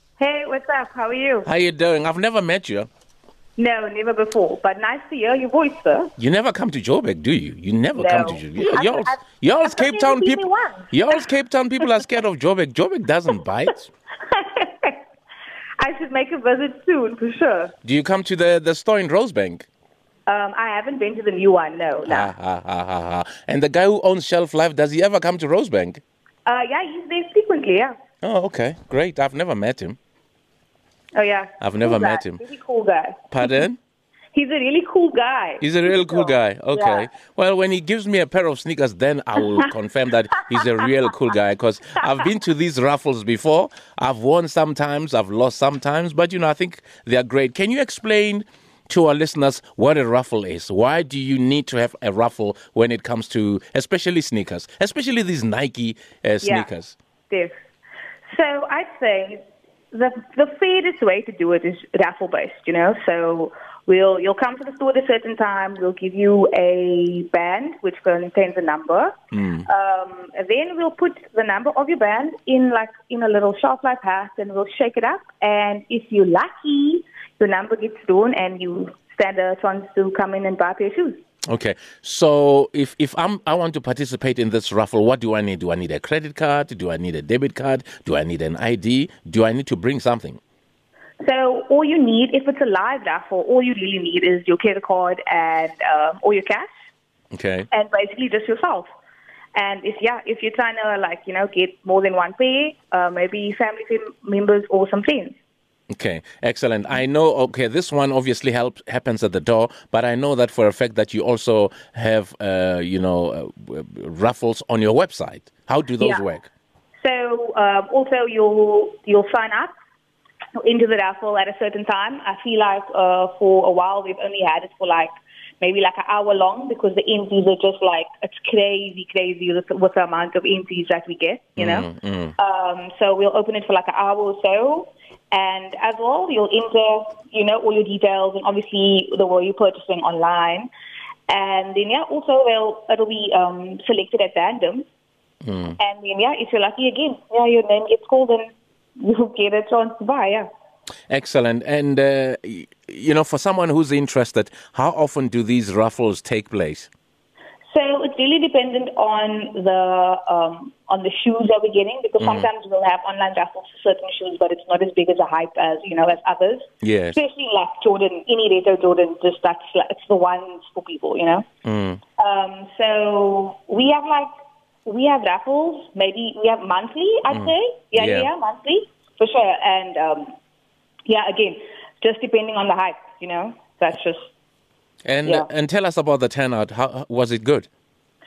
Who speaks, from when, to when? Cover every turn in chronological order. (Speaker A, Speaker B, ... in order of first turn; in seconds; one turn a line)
Speaker A: 0.2-1.5
Speaker B: 1.4-2.9
Speaker A: 3.6-6.1
Speaker B: 6.2-13.9
Speaker A: 8.0-11.2
Speaker A: 14.2-15.0
Speaker A: 15.8-17.7
Speaker B: 17.8-19.7
Speaker A: 20.3-22.3
Speaker B: 22.1-26.0
Speaker A: 26.4-27.9
Speaker B: 28.2-30.0
Speaker A: 31.1-33.6
Speaker B: 31.6-32.4
Speaker B: 33.3-33.8
Speaker A: 34.3-37.1
Speaker B: 35.6-57.0
Speaker A: 56.4-56.7
Speaker A: 58.3-81.2
Speaker B: 69.3-69.7
Speaker B: 81.5-90.4
Speaker A: 91.2-96.7
Speaker B: 97.3-97.7
Speaker A: 97.7-98.9
Speaker A: 99.5-105.4
Speaker B: 105.9-116.5
Speaker A: 117.0-119.7
Speaker A: 120.6-125.1
Speaker A: 125.6-140.7
Speaker B: 131.6-132.3
Speaker A: 141.3-144.8
Speaker B: 145.4-145.8
Speaker A: 145.8-150.5
Speaker B: 151.1-156.9
Speaker A: 157.7-171.4
Speaker B: 162.2-162.5
Speaker B: 166.8-167.2
Speaker B: 171.6-172.0
Speaker A: 172.2-174.3
Speaker A: 174.8-180.3
Speaker B: 177.3-178.3
Speaker A: 181.1-184.3
Speaker B: 185.0-187.7